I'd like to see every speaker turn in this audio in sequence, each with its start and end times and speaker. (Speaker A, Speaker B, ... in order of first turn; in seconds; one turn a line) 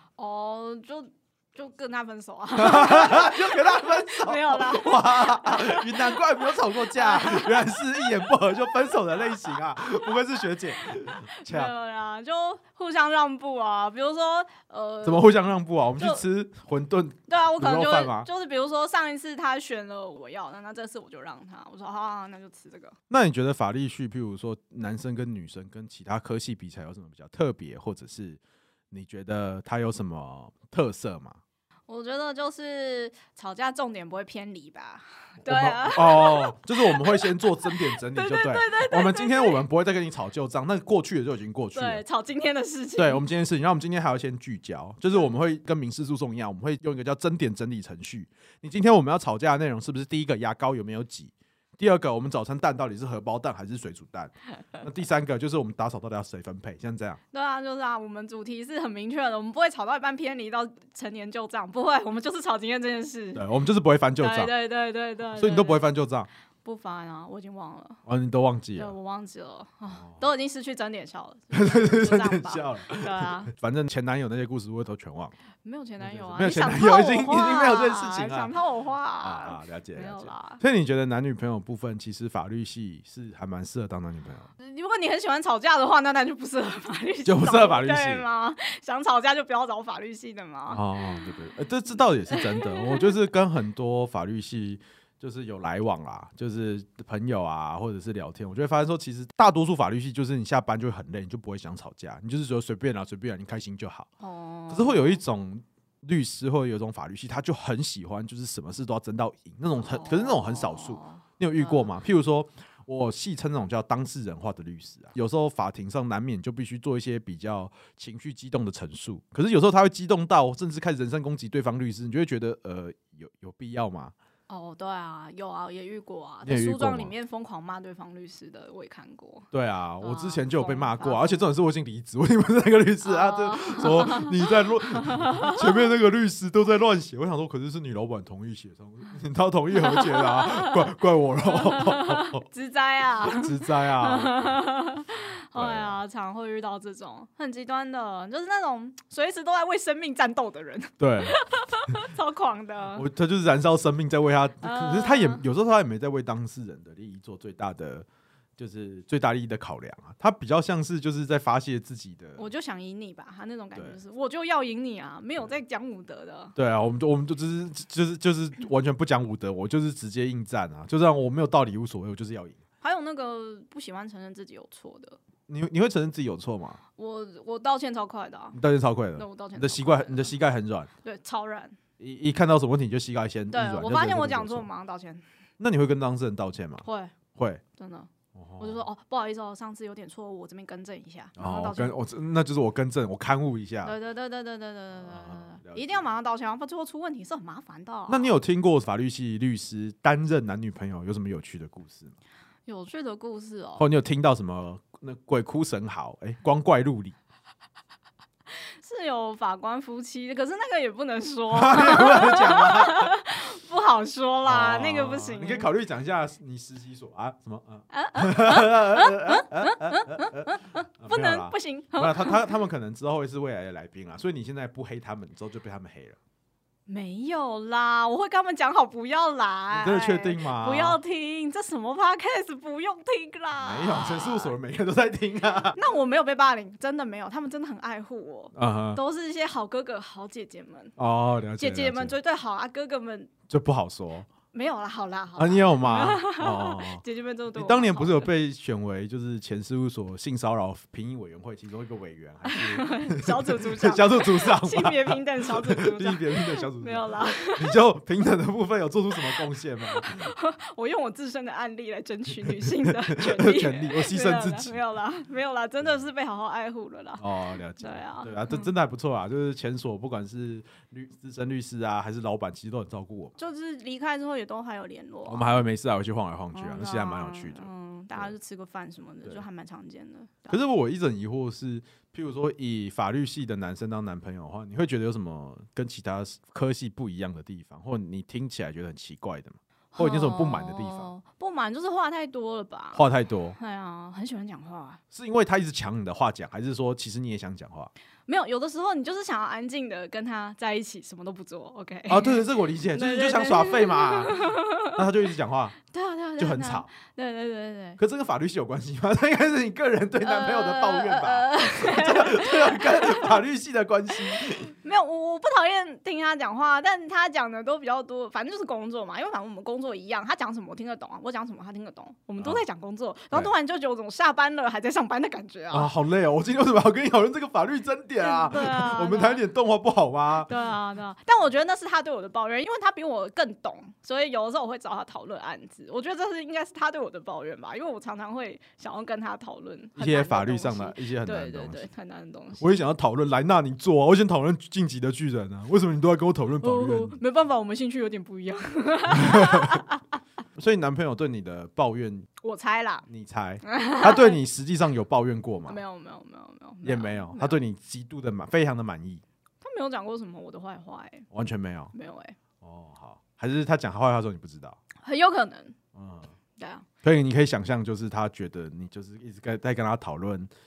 Speaker A: 0.2-10.1
Speaker B: 2.5-11.7
Speaker A: 10.8-15.3
Speaker B: 15.0-18.3
Speaker A: 15.9-16.2
Speaker A: 17.3-22.9
Speaker B: 23.1-28.4
Speaker B: 28.9-31.4
Speaker A: 31.9-39.6
Speaker B: 35.5-42.0
Speaker A: 41.7-43.2
Speaker B: 43.0-57.2
Speaker A: 57.3-63.5
Speaker B: 63.4-64.5
Speaker A: 64.2-65.8
Speaker B: 65.3-66.3
Speaker A: 66.6-68.0
Speaker B: 68.0-68.9
Speaker A: 68.8-73.5
Speaker B: 69.9-70.2
Speaker B: 71.5-75.3
Speaker A: 75.6-80.6
Speaker B: 76.0-78.5
Speaker B: 79.2-84.5
Speaker A: 84.6-91.3
Speaker B: 87.2-88.2
Speaker B: 90.7-104.1
Speaker A: 92.3-93.1
Speaker A: 104.2-105.2
Speaker B: 104.7-124.1
Speaker A: 109.8-111.9
Speaker A: 124.5-129.5
Speaker B: 126.4-127.1
Speaker B: 129.5-142.4
Speaker A: 130.0-131.5
Speaker A: 133.0-135.9
Speaker A: 139.7-140.9
Speaker A: 141.4-153.1
Speaker B: 143.3-144.6
Speaker B: 145.5-146.0
Speaker B: 151.0-152.0
Speaker B: 152.9-158.1
Speaker A: 154.6-155.4
Speaker B: 158.6-162.4
Speaker A: 162.4-166.5
Speaker B: 166.6-172.6
Speaker A: 172.8-175.2
Speaker B: 175.5-176.8
Speaker A: 176.9-178.6
Speaker B: 178.5-180.9
Speaker A: 179.1-180.3
Speaker A: 181.0-181.8
Speaker B: 182.0-184.7
Speaker A: 183.5-185.2
Speaker B: 185.6-187.6
Speaker A: 186.8-187.1
Speaker A: 187.8-192.0
Speaker B: 188.3-188.8
Speaker B: 191.4-193.9
Speaker A: 193.8-198.3
Speaker B: 194.9-196.1
Speaker B: 198.1-202.2
Speaker A: 202.7-203.8
Speaker B: 203.8-207.2
Speaker A: 208.5-215.7
Speaker B: 211.5-213.1
Speaker B: 214.4-226.2
Speaker A: 217.9-222.4
Speaker A: 226.9-234.5
Speaker B: 229.7-231.0
Speaker B: 233.6-235.8
Speaker A: 235.7-240.9
Speaker B: 238.5-239.0
Speaker B: 241.0-242.1
Speaker A: 241.6-243.3
Speaker B: 243.5-244.3
Speaker A: 244.5-248.3
Speaker B: 245.3-247.0
Speaker B: 247.5-260.3
Speaker A: 252.4-257.8
Speaker A: 259.3-267.3
Speaker B: 262.4-264.8
Speaker B: 267.2-273.4
Speaker A: 267.8-268.7
Speaker A: 273.4-275.5
Speaker B: 275.3-278.3
Speaker A: 276.5-280.6
Speaker B: 280.5-291.1
Speaker A: 289.9-293.1
Speaker B: 292.9-293.6
Speaker A: 293.6-295.0
Speaker B: 295.1-297.9
Speaker A: 298.3-305.1
Speaker B: 302.1-305.8
Speaker A: 305.9-308.0
Speaker B: 306.4-306.9
Speaker B: 308.0-314.7
Speaker A: 310.2-313.4
Speaker A: 314.1-325.9
Speaker B: 325.7-330.5
Speaker A: 328.2-329.4
Speaker A: 330.4-342.8
Speaker B: 339.9-341.9
Speaker B: 342.6-347.2
Speaker A: 346.6-350.2
Speaker B: 349.1-349.8
Speaker B: 350.6-352.3
Speaker A: 352.4-353.1
Speaker B: 353.1-355.8
Speaker A: 353.6-354.4
Speaker A: 355.6-357.6
Speaker B: 356.8-359.2
Speaker A: 359.6-361.3
Speaker B: 361.3-361.9
Speaker A: 361.9-362.4
Speaker B: 362.6-364.8
Speaker A: 365.0-365.8
Speaker B: 365.9-366.3
Speaker A: 366.6-366.9
Speaker B: 367.0-370.5